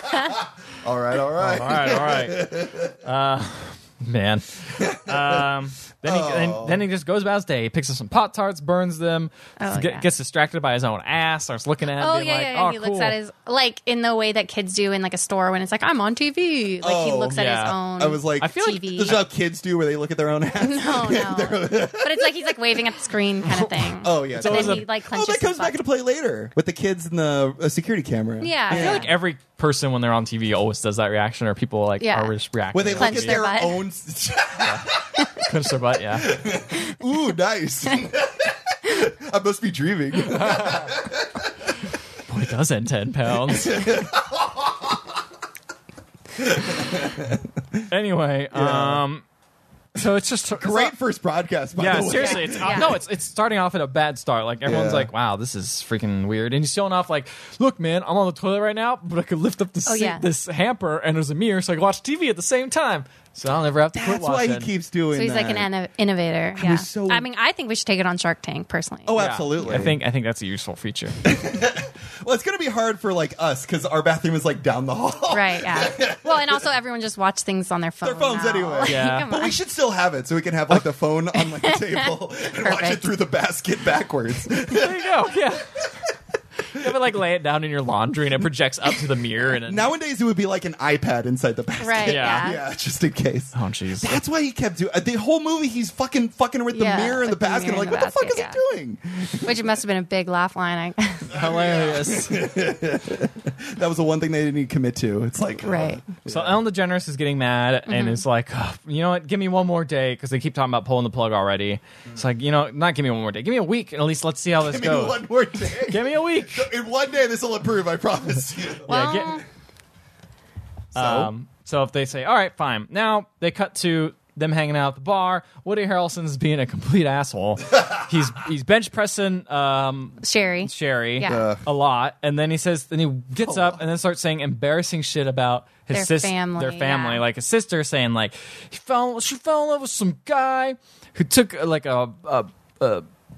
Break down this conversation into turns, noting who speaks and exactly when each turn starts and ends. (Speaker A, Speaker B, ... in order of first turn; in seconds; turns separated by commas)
Speaker A: 0.8-3.0, Speaker B: 1.4-13.2, Speaker A: 4.8-5.4, Speaker A: 6.0-6.8, Speaker C: 9.6-10.1, Speaker C: 12.0-19.2, Speaker A: 16.8-17.4, Speaker B: 17.3-17.8, Speaker A: 18.0-22.6, Speaker B: 18.4-19.1, Speaker C: 20.6-25.8, Speaker A: 23.4-29.1, Speaker B: 24.3-24.9, Speaker C: 28.4-29.1, Speaker B: 28.7-33.5, Speaker C: 32.0-32.3, Speaker A: 32.7-35.0, Speaker C: 33.0-33.8, Speaker B: 34.6-36.4, Speaker A: 36.2-41.5, Speaker B: 40.3-40.9, Speaker B: 42.3-43.9, Speaker A: 43.5-45.0, Speaker A: 46.4-47.8, Speaker B: 47.9-49.2, Speaker A: 48.5-49.0, Speaker B: 49.9-50.9, Speaker A: 50.6-53.0, Speaker B: 51.8-64.7, Speaker C: 52.1-52.9, Speaker A: 54.6-55.1, Speaker C: 59.9-60.2, Speaker A: 63.9-65.7, Speaker C: 65.1-69.2, Speaker A: 66.5-67.2, Speaker A: 69.0-70.0, Speaker B: 69.2-71.2, Speaker A: 71.2-76.7, Speaker C: 75.3-79.6, Speaker A: 78.0-85.1, Speaker B: 78.8-79.3, Speaker C: 81.4-83.1, Speaker B: 84.7-85.9, Speaker B: 86.7-89.9, Speaker A: 89.6-99.6, Speaker C: 91.8-92.6, Speaker B: 92.1-92.5, Speaker B: 93.5-94.2, Speaker C: 96.7-98.6, Speaker C: 99.4-101.3, Speaker B: 101.3-102.4, Speaker A: 101.3-106.6, Speaker C: 105.6-106.0, Speaker B: 106.2-115.2, Speaker C: 107.9-108.2, Speaker A: 114.6-118.9, Speaker B: 115.8-116.7, Speaker C: 118.8-119.4, Speaker B: 118.9-119.4, Speaker A: 120.9-121.3, Speaker B: 120.9-143.1, Speaker C: 130.2-131.5, Speaker A: 131.2-131.6, Speaker A: 133.4-133.8, Speaker C: 135.9-137.2